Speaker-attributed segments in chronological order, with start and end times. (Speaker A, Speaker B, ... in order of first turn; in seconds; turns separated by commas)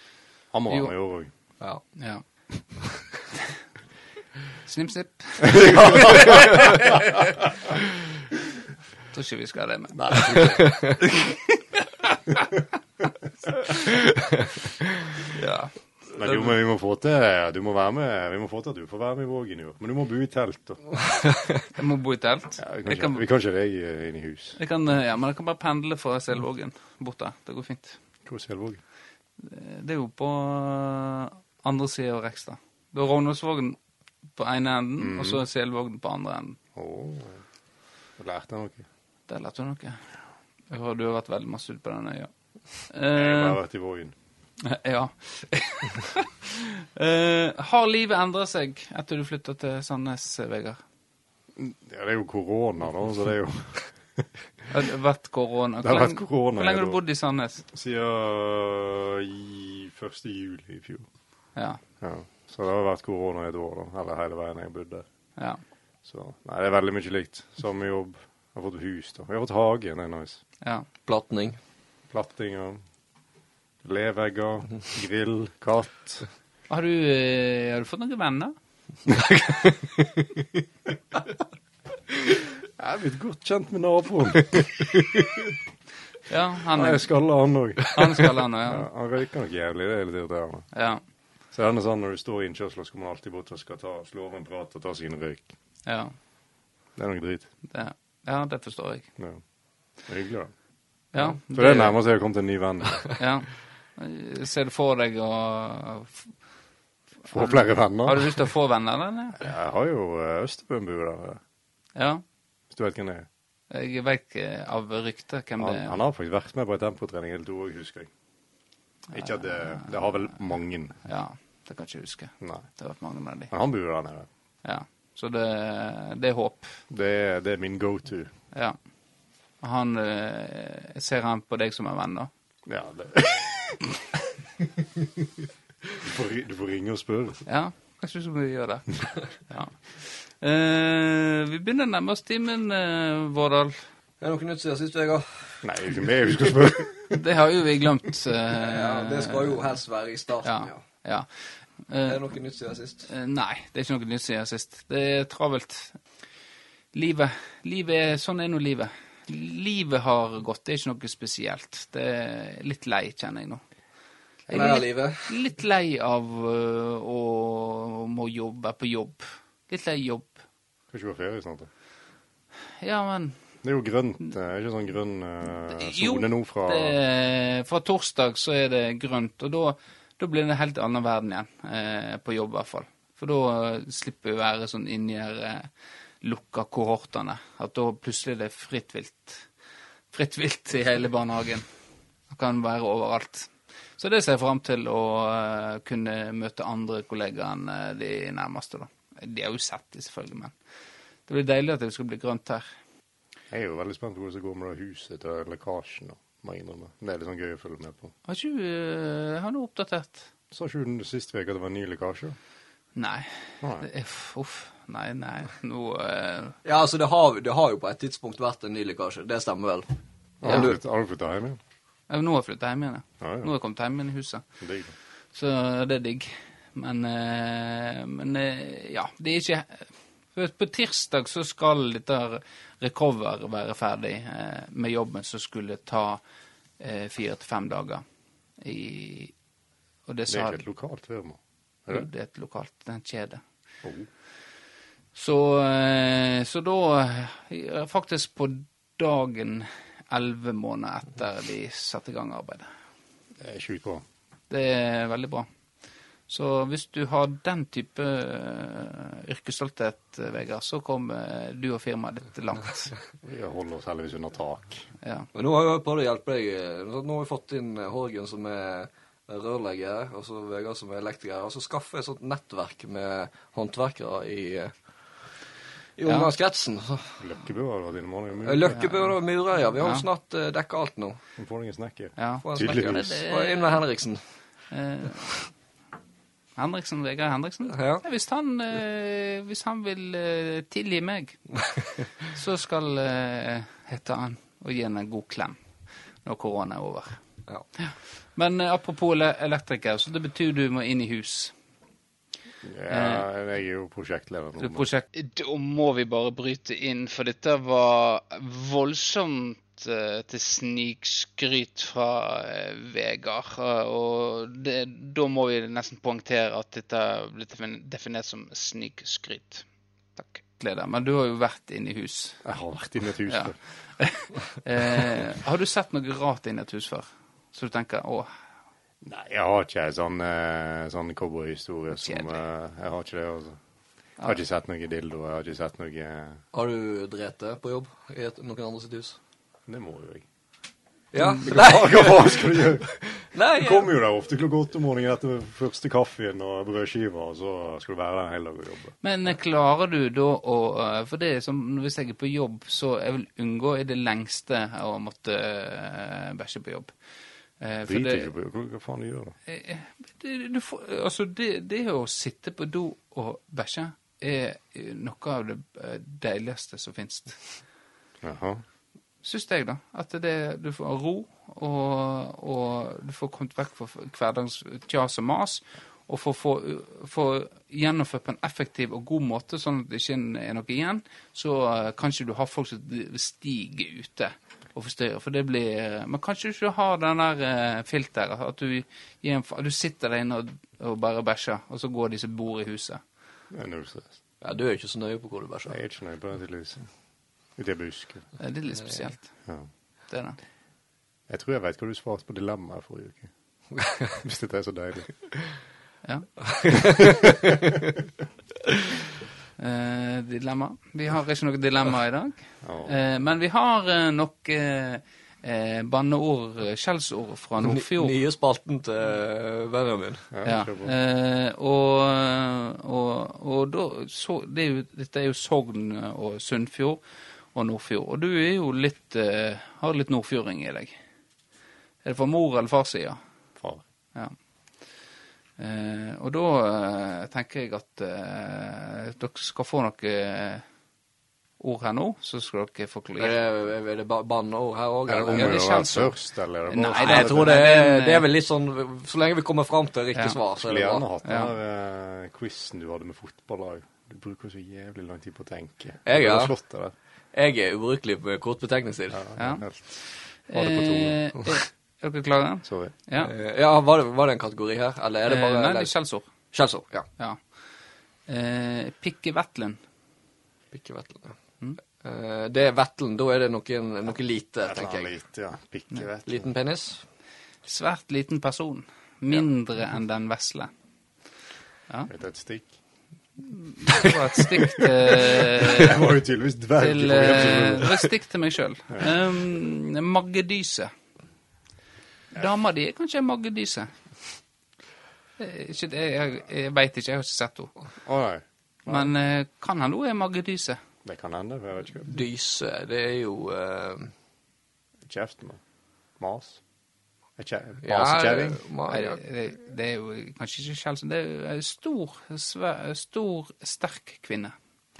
Speaker A: 0.5-1.3, Speaker B: 1.9-2.2, Speaker B: 4.6-7.2, Speaker A: 5.4-6.6, Speaker B: 9.1-10.4, Speaker A: 9.9-11.0, Speaker C: 10.6-11.0, Speaker B: 15.3-15.7, Speaker A: 16.2-20.9, Speaker B: 21.7-23.2, Speaker A: 22.6-24.6, Speaker B: 24.6-28.0, Speaker A: 28.2-28.8, Speaker B: 29.4-33.8, Speaker B: 34.4-36.6, Speaker A: 35.0-35.4, Speaker A: 36.8-37.4, Speaker A: 38.2-38.9, Speaker B: 39.3-40.0, Speaker B: 40.7-42.3, Speaker B: 42.9-43.6, Speaker A: 43.1-44.1, Speaker B: 44.6-50.8, Speaker A: 51.6-54.3, Speaker B: 54.7-57.6, Speaker A: 55.8-57.0, Speaker A: 57.7-61.1, Speaker A: 62.0-65.0, Speaker A: 66.0-70.4, Speaker B: 70.6-70.9, Speaker C: 71.1-71.6, Speaker A: 72.1-72.8, Speaker A: 73.8-76.2, Speaker B: 76.7-78.5, Speaker A: 82.8-84.9, Speaker B: 86.3-87.0, Speaker A: 86.7-90.7, Speaker B: 87.9-88.9, Speaker B: 90.7-91.0, Speaker A: 91.5-95.5, Speaker B: 95.9-96.1, Speaker A: 97.0-97.5, Speaker B: 97.7-99.1, Speaker A: 100.1-100.5, Speaker B: 101.1-102.0, Speaker A: 101.1-103.1, Speaker B: 103.2-106.3, Speaker B: 107.2-109.4, Speaker A: 107.3-108.4, Speaker A: 109.4-111.4, Speaker B: 112.0-112.2, Speaker A: 112.7-113.3, Speaker B: 113.7-116.0, Speaker A: 115.6-118.1, Speaker A: 119.1-121.0, Speaker B: 119.2-119.9, Speaker B: 121.0-123.5, Speaker A: 122.4-122.7, Speaker A: 123.5-124.3, Speaker B: 124.6-126.8, Speaker A: 126.9-128.3, Speaker B: 128.5-128.8, Speaker B: 129.6-132.3, Speaker A: 132.7-134.0, Speaker A: 136.0-137.4, Speaker B: 137.5-143.8, Speaker C: 144.2-145.6, Speaker A: 145.6-147.2, Speaker B: 147.1-149.7, Speaker C: 148.5-150.8, Speaker B: 150.4-151.3, Speaker B: 151.8-152.2, Speaker C: 152.1-153.1, Speaker B: 153.1-156.0, Speaker B: 156.9-163.6, Speaker B: 164.5-170.4, Speaker C: 164.5-165.4, Speaker A: 170.9-171.7, Speaker B: 172.8-173.4, Speaker A: 173.6-177.0, Speaker B: 175.7-185.7, Speaker B: 186.2-189.5, Speaker B: 190.1-191.7, Speaker B: 192.3-200.5, Speaker B: 201.3-202.6, Speaker A: 203.5-208.1, Speaker B: 208.3-210.3, Speaker A: 210.5-212.4, Speaker B: 213.0-216.6, Speaker C: 216.6-219.9, Speaker A: 220.4-221.6, Speaker C: 220.4-220.7, Speaker B: 222.1-224.4, Speaker A: 223.2-223.5, Speaker A: 224.6-224.9, Speaker B: 225.3-236.2, Speaker B: 236.8-238.0, Speaker B: 238.6-239.3, Speaker B: 240.1-240.6, Speaker A: 240.3-242.1, Speaker B: 241.9-243.4, Speaker A: 243.8-244.1, Speaker B: 245.1-252.7, Speaker A: 253.4-254.0, Speaker B: 254.5-255.5, Speaker B: 256.3-262.9, Speaker A: 263.2-264.9, Speaker B: 265.0-265.3, Speaker C: 265.3-274.7, Speaker C: 276.0-277.2, Speaker A: 277.2-278.8, Speaker C: 278.4-281.2, Speaker B: 278.7-279.1, Speaker B: 279.8-280.1, Speaker A: 281.4-283.2, Speaker B: 282.2-283.8, Speaker C: 282.4-284.2, Speaker B: 284.7-285.4, Speaker B: 286.6-291.4, Speaker C: 287.7-288.0, Speaker B: 292.3-295.6, Speaker B: 296.2-297.2, Speaker B: 297.8-301.6, Speaker A: 302.6-304.9, Speaker B: 302.9-303.2, Speaker B: 304.6-322.4, Speaker A: 322.4-323.6, Speaker B: 323.3-328.3, Speaker A: 329.0-333.6, Speaker B: 331.9-332.4, Speaker A: 334.2-336.4, Speaker C: 336.5-339.2, Speaker A: 339.7-340.2, Speaker C: 341.1-343.9, Speaker A: 341.4-343.0, Speaker A: 343.5-349.0, Speaker B: 349.0-356.9, Speaker B: 357.6-358.3, Speaker A: 357.9-359.4, Speaker B: 359.5-367.4, Speaker A: 368.2-368.6, Speaker B: 369.2-393.0, Speaker A: 393.5-394.2, Speaker C: 394.4-395.8, Speaker A: 395.7-396.9, Speaker A: 397.6-398.4, Speaker B: 398.4-399.3, Speaker B: 400.1-400.4, Speaker A: 401.3-403.3, Speaker C: 403.7-404.2, Speaker A: 404.2-405.1, Speaker B: 406.1-406.3, Speaker C: 406.5-407.3, Speaker A: 406.8-407.5, Speaker B: 409.6-418.1, Speaker A: 412.6-413.0, Speaker C: 417.6-420.3, Speaker A: 420.3-420.9, Speaker B: 420.4-427.0, Speaker B: 427.5-431.0, Speaker B: 432.0-433.2, Speaker B: 435.6-440.6, Speaker B: 441.6-443.4, Speaker C: 443.2-445.6, Speaker A: 445.1-447.5, Speaker B: 445.4-446.2, Speaker B: 446.7-448.2, Speaker C: 446.9-451.1, Speaker A: 450.6-456.9, Speaker B: 451.2-451.5, Speaker C: 456.1-456.6, Speaker C: 457.3-459.3, Speaker A: 459.1-461.3, Speaker B: 459.4-459.6, Speaker B: 460.5-463.3, Speaker A: 462.7-462.9, Speaker C: 463.2-465.9, Speaker B: 465.3-466.3, Speaker C: 466.5-467.1, Speaker B: 468.3-469.8, Speaker C: 470.7-471.4, Speaker C: 472.0-475.1, Speaker A: 474.6-476.5, Speaker C: 476.3-477.0, Speaker B: 477.6-480.7, Speaker A: 482.1-482.7, Speaker B: 483.5-486.0, Speaker A: 485.4-488.1, Speaker B: 486.8-490.9, Speaker B: 492.3-494.0, Speaker B: 495.4-497.7, Speaker A: 498.0-499.1, Speaker B: 498.9-500.8, Speaker A: 501.1-502.1, Speaker C: 502.1-504.1, Speaker A: 505.1-505.6, Speaker A: 506.2-506.6, Speaker A: 507.4-508.6, Speaker C: 507.8-509.2, Speaker B: 508.9-514.5